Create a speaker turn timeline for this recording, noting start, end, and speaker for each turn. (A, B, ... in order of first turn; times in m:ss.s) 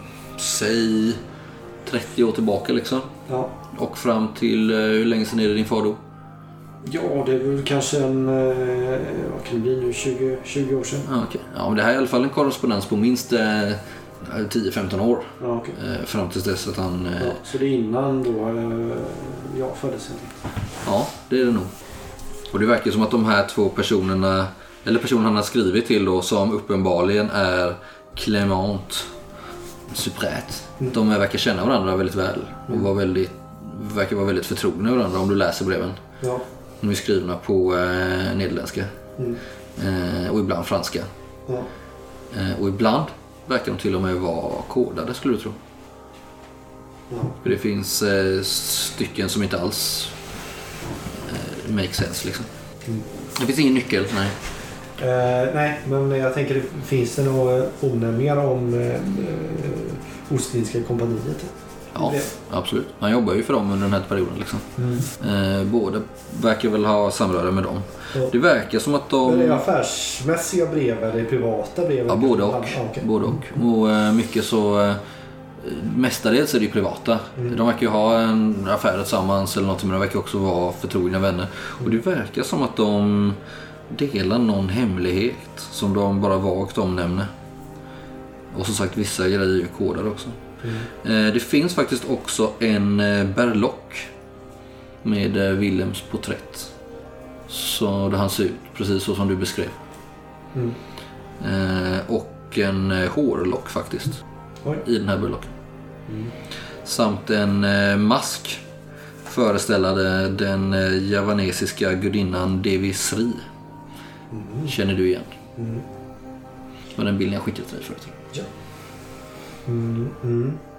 0:00.4-0:01.2 A
0:01.8-0:03.1 A
0:03.3-0:03.5 B
0:03.7-0:06.0 A
0:06.8-0:11.1 B
0:11.1-0:17.4 A
0:15.4-0:15.8 B
0:17.2-0:20.4 B
0:20.8-0:21.7 A
0:22.5-0:29.1 A
0:29.9-0:36.0 A
0:36.8-0:38.9 A
0:39.8-0:41.1 A
0:42.3-0:45.6 A
0:47.1-0:47.4 B
0:47.4-0:50.2 A
0:51.2-0:52.5 A
0:53.3-0:54.4 A
0:55.0-1:02.3 B
1:02.0-1:09.6 A
1:04.8-1:05.1 B
1:09.2-1:13.4 B
1:12.1-1:15.0 A
1:15.6-1:27.3 A
1:28.5-1:30.4 A
1:30.6-1:30.9 B
1:31.0-1:34.1 A
1:35.0-1:36.7 A
1:37.5-1:39.8 A
1:41.4-1:44.2 A
1:44.8-1:45.5 A
1:46.1-1:46.3 B
1:46.8-1:48.6 A
1:49.3-1:53.5 A
1:54.3-1:54.7 B
1:54.7-1:55.3 A
1:55.6-1:55.8 B
1:57.0-1:58.2 A
1:59.7-2:00.6 B